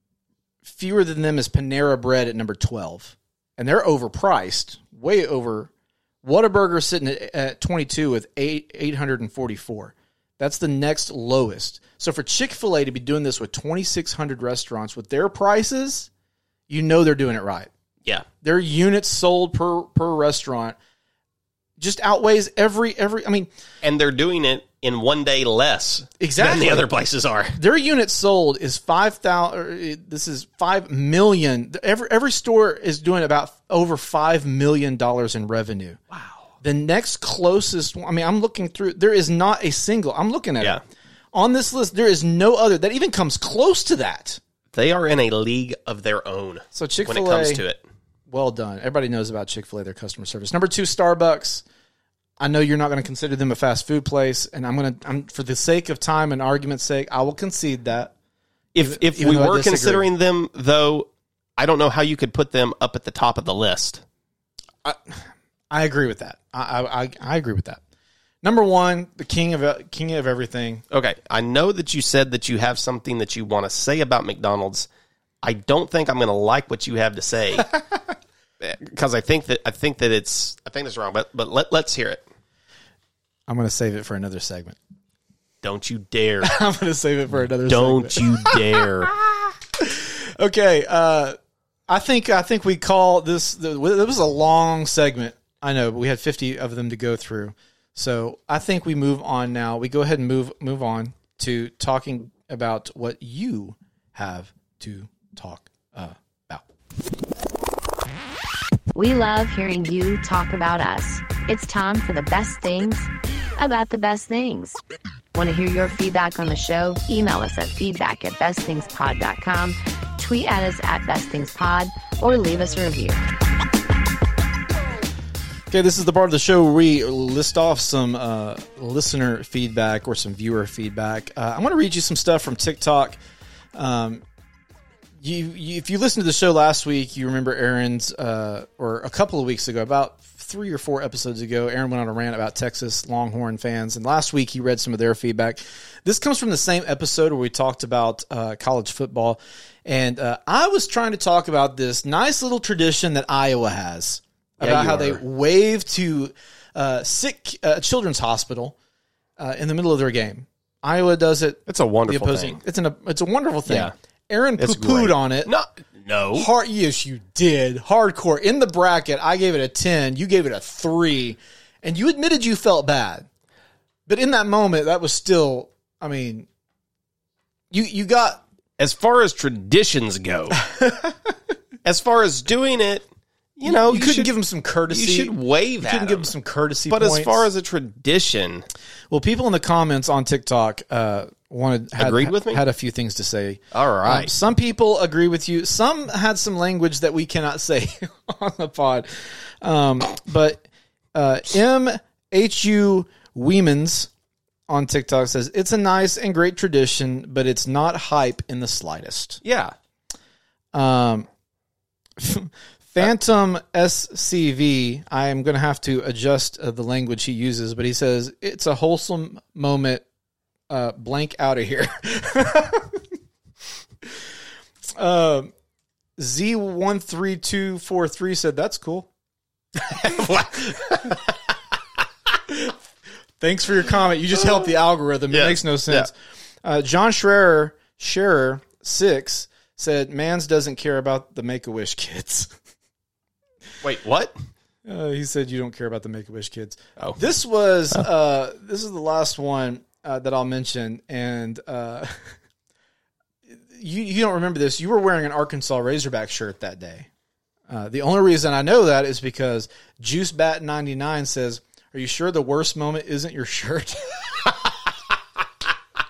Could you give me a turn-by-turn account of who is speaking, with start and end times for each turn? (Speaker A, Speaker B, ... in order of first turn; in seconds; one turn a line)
Speaker A: 0.6-5.7
Speaker A: 6.2-16.1
Speaker A: 16.7-17.7
Speaker A: 18.4-20.8
Speaker A: 21.8-23.5
Speaker B: 23.8-27.6
Speaker A: 26.2-26.9
Speaker A: 27.6-36.0
Speaker B: 36.1-36.4
Speaker A: 36.6-40.8
Speaker A: 41.3-44.4
Speaker B: 44.7-47.8
Speaker A: 46.7-47.6
Speaker A: 48.3-51.6
Speaker A: 52.4-58.1
Speaker B: 58.7-64.0
Speaker A: 58.8-60.1
Speaker A: 64.8-67.8
Speaker A: 68.4-70.8
Speaker B: 70.9-74.9
Speaker B: 75.4-77.7
Speaker B: 78.6-82.2
Speaker A: 83.5-84.8
Speaker B: 85.6-86.5
Speaker A: 86.4-91.4
Speaker B: 87.7-89.1
Speaker A: 91.9-106.6
Speaker C: 108.9-114.8
Speaker C: 115.3-123.2
Speaker A: 125.7-133.2
Speaker A: 133.7-134.2
Speaker A: 135.2-158.8
Speaker B: 154.6-155.2
Speaker A: 159.4-165.5
Speaker B: 161.7-162.6
Speaker B: 163.7-163.9
Speaker B: 164.6-166.5
Speaker A: 166.3-173.3
Speaker A: 174.1-176.5
Speaker A: 177.7-178.4
Speaker B: 178.8-180.6
Speaker A: 180.6-181.3
Speaker B: 181.8-183.0
Speaker B: 183.6-184.3
Speaker A: 183.7-187.5
Speaker B: 184.9-186.3
Speaker B: 186.9-188.7
Speaker A: 189.1-204.1
Speaker B: 192.0-192.6
Speaker B: 193.7-194.3
Speaker A: 204.7-209.4
Speaker B: 209.4-209.7
Speaker A: 210.7-211.3
Speaker A: 212.2-220.1
Speaker A: 220.7-223.0
Speaker A: 224.9-225.5
Speaker A: 226.2-229.1
Speaker A: 230.0-231.2
Speaker B: 230.0-231.1
Speaker A: 232.5-232.8
Speaker A: 233.4-242.5
Speaker B: 235.3-236.1
Speaker B: 243.8-244.3
Speaker A: 244.8-252.2
Speaker A: 253.5-257.1
Speaker A: 257.7-264.7